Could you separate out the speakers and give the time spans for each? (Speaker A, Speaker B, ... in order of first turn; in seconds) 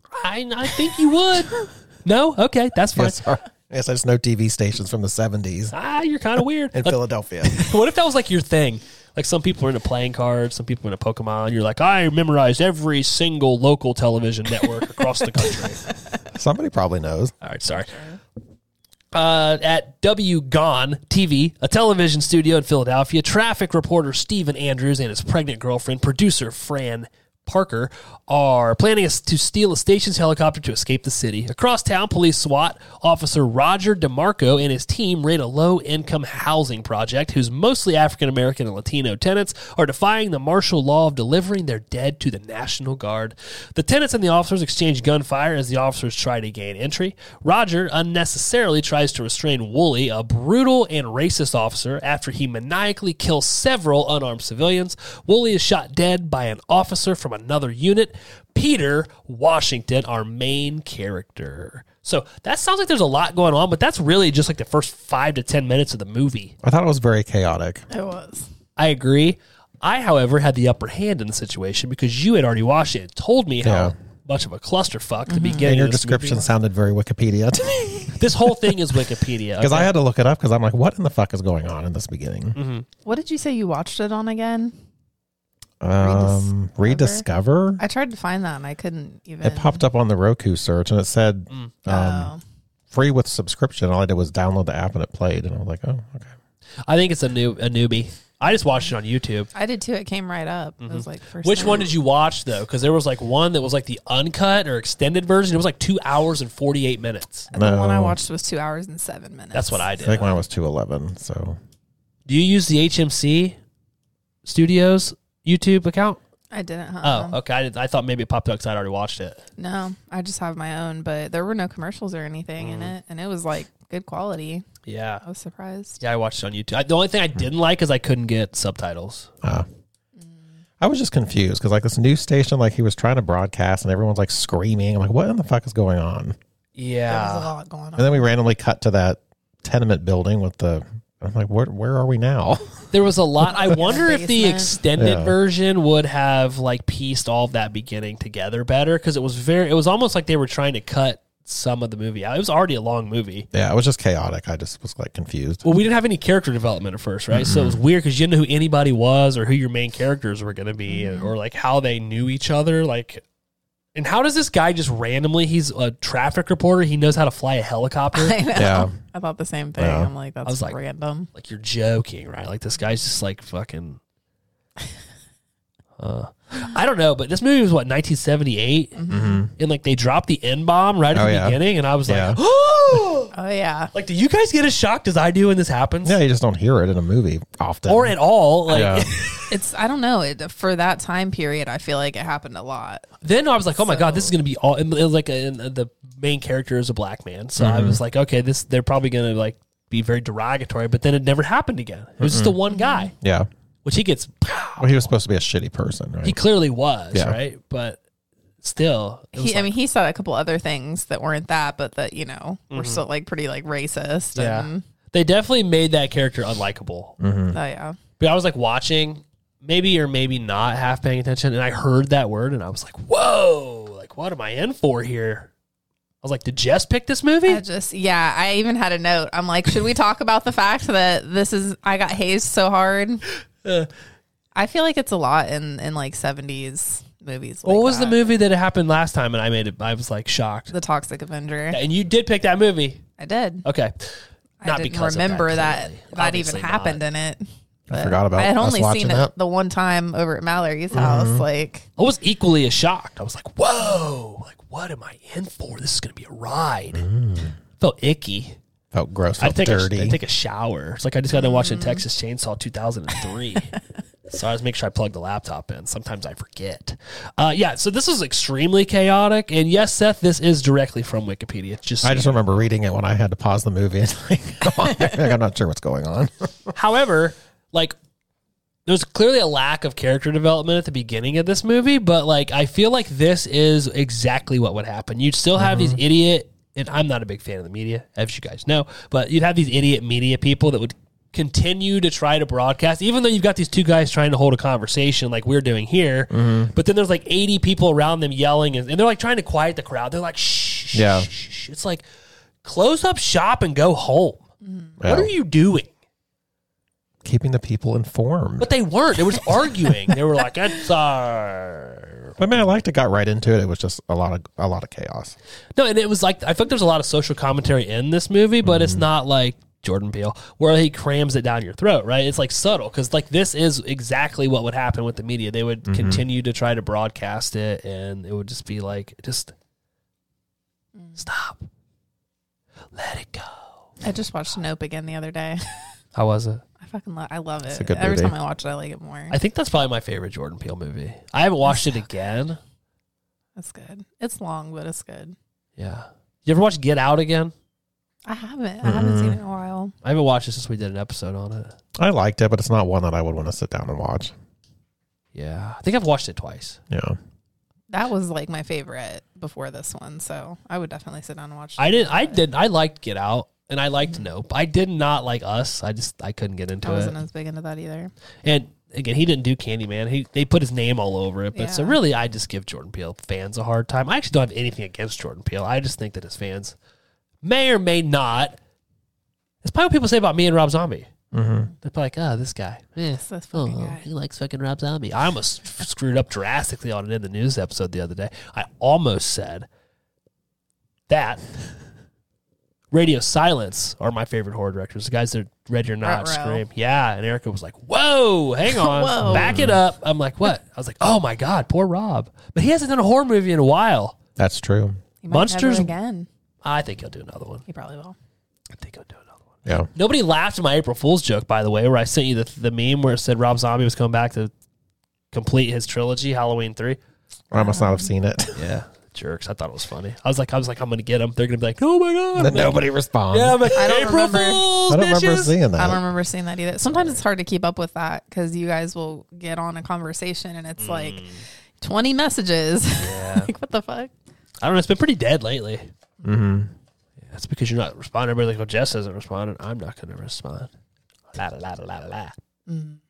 Speaker A: 0.1-3.2, 5.7-15.8, 17.4-18.0, 19.1-66.5, 68.8-76.5, 78.1-79.9, 82.5-82.9, 96.9-99.5, 100.8-107.5, 109.5-110.3, 112.3-113.6, 114.5-116.2, 117.0-119.4, 122.6-122.9, 124.9-125.2, 126.0-129.3, 136.8-137.5, 142.9-153.5, 155.6-163.2, 163.9-168.4, 170.4-170.8, 171.3-174.0, 176.0-179.0, 179.6-183.3, 183.9-186.2, 187.9-189.6, 193.2-203.1, 203.8-205.1, 206.2-208.0, 208.6-209.7, 212.7-213.0, 214.3-217.2, 218.2-225.5, 226.2-227.6, 233.6-233.9, 237.7-240.7, 241.7-243.0, 243.7-247.0, 252.0-257.1, 257.8-258.6, 259.4-263.8, 264.3-272.7, 276.8-277.9, 278.9-302.0, 302.6-304.5, 305.0-305.9, 308.6-312.4, 315.8-329.5, 331.2-331.7, 332.9-333.7, 336.1-336.6, 339.3-342.6, 345.8-347.5, 350.0-351.8, 355.4-356.8, 361.8-367.1, 368.4-376.8, 377.4-378.6, 379.6-381.1, 381.8-389.7, 391.1-391.5, 392.9-404.2, 405.3-405.9, 406.6-407.6, 408.7-409.4, 409.9-414.5, 415.3-417.0, 418.6-425.6, 430.8-431.4, 433.0-433.5, 434.6-435.9, 437.2-440.7, 441.3-442.4
Speaker B: 3.0-5.7, 6.7-7.7, 16.3-17.3, 66.6-67.8, 73.6-73.9, 75.6-78.2, 79.6-82.6, 85.8-87.8, 89.4-92.3, 92.9-96.3, 107.5-108.2, 110.0-111.6, 130.8-136.4, 138.0-142.8, 145.0-145.4, 153.5-155.6, 157.3-157.8, 168.6-168.9, 169.8-170.1, 179.1-179.5, 181.1-182.4, 186.0-188.2, 188.7-189.1, 197.6-198.0, 202.2-202.6, 203.2-203.5, 204.8-206.4, 217.2-217.6, 247.9-249.3, 250.9-251.4, 256.9-257.6, 258.9-260.2, 272.0-276.7, 285.6-286.0, 296.3-296.7, 300.9-301.3, 305.0-305.3, 307.2-308.7, 312.4-315.4, 318.6-319.0, 325.9-326.2, 337.7-338.3, 348.8-349.4, 352.0-354.3, 356.9-357.2, 381.3-381.7, 399.2-399.8, 404.4-405.0, 417.5-418.6, 422.4-424.0, 424.9-426.0, 436.2-436.7
Speaker C: 67.9-68.5, 75.3-75.7, 83.0-84.8, 86.0-87.2, 87.8-89.8, 91.9-92.4, 99.5-101.9, 107.5-109.9, 116.5-117.4, 119.6-124.7, 125.2-126.0, 137.1-138.3, 143.5-144.8, 160.9-161.3, 168.1-171.3, 179.0-179.5, 183.3-183.9, 189.5-193.1, 193.8-194.3, 202.7-203.1, 209.3-214.8, 217.5-218.0, 227.5-233.2, 234.6-238.2, 240.7-241.8, 243.2-243.7, 244.6-251.9, 261.3-262.0, 304.6-304.9, 334.0-335.8, 336.8-339.4, 343.6-345.4, 348.3-349.9, 357.9-362.4, 366.8-368.1, 371.5-372.0, 383.2-384.1, 396.0-396.6, 398.7-399.6, 405.2-406.3, 407.7-408.2, 417.5-418.1, 423.8-424.7, 425.8-431.2, 431.8-434.1, 442.7-443.0